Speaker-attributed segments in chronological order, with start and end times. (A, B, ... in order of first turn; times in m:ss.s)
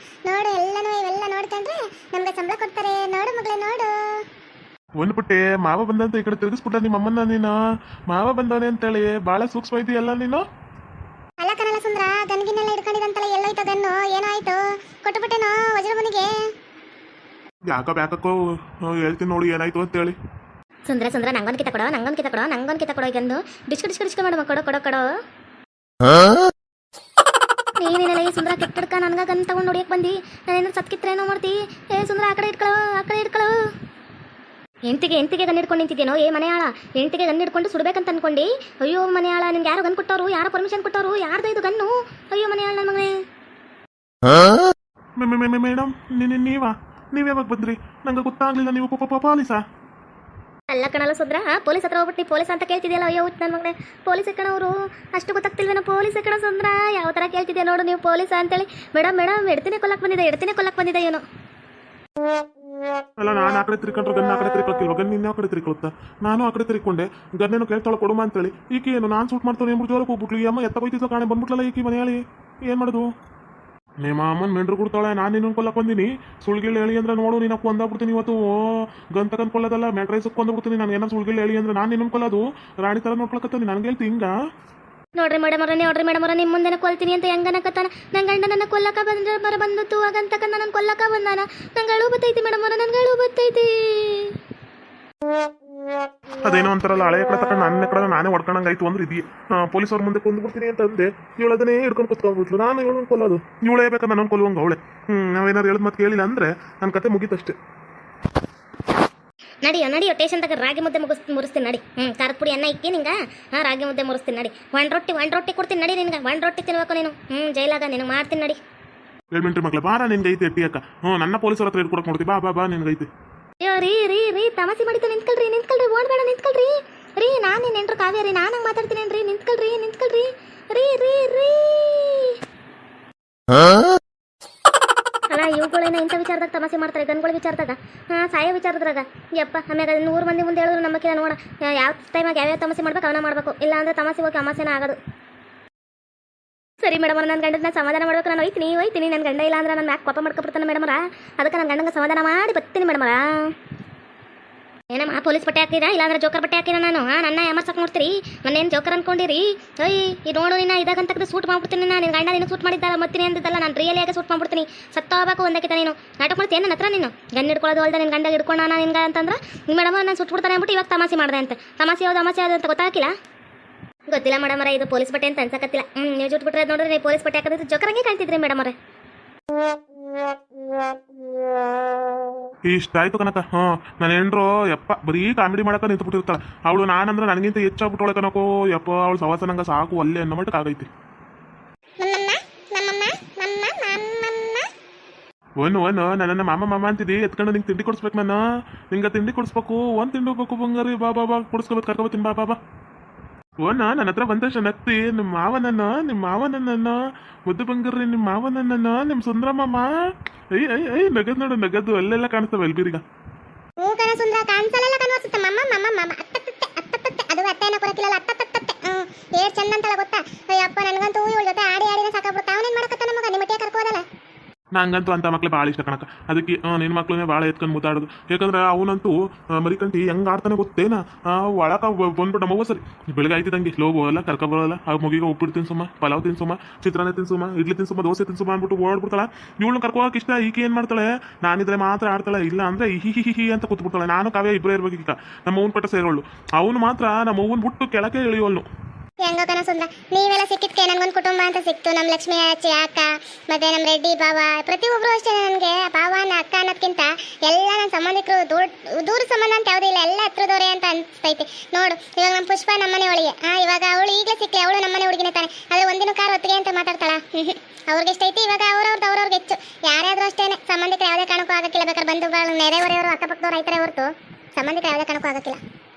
0:00.2-0:04.2 A
0:05.0-0:07.6 B
0:08.1-0:10.4 B
0:11.4-0:16.4 A
0:17.7-0:20.2 B
0:20.9-0:25.1 C
0:27.8-0:33.6 C
0:34.9-0:43.2 C
0:45.2-0:49.6 B
0:50.7-1:01.2 C
1:03.2-1:13.1 B
1:14.0-1:24.3 B
1:25.2-1:34.4 C
1:36.4-1:47.6 B
1:49.6-1:58.6 C
1:59.3-2:03.1 B
2:03.6-2:12.4 C
2:15.3-2:25.0 C
2:26.8-2:33.5 C
2:34.9-2:53.1 C
2:54.1-2:58.7 C
3:02.7-3:10.9 B
3:12.0-3:14.7 A
3:15.6-3:22.6 B
3:23.6-3:29.9 B
3:30.6-3:33.0 B
3:33.8-3:44.0 A
3:44.8-4:08.6 B
4:09.2-4:35.6 A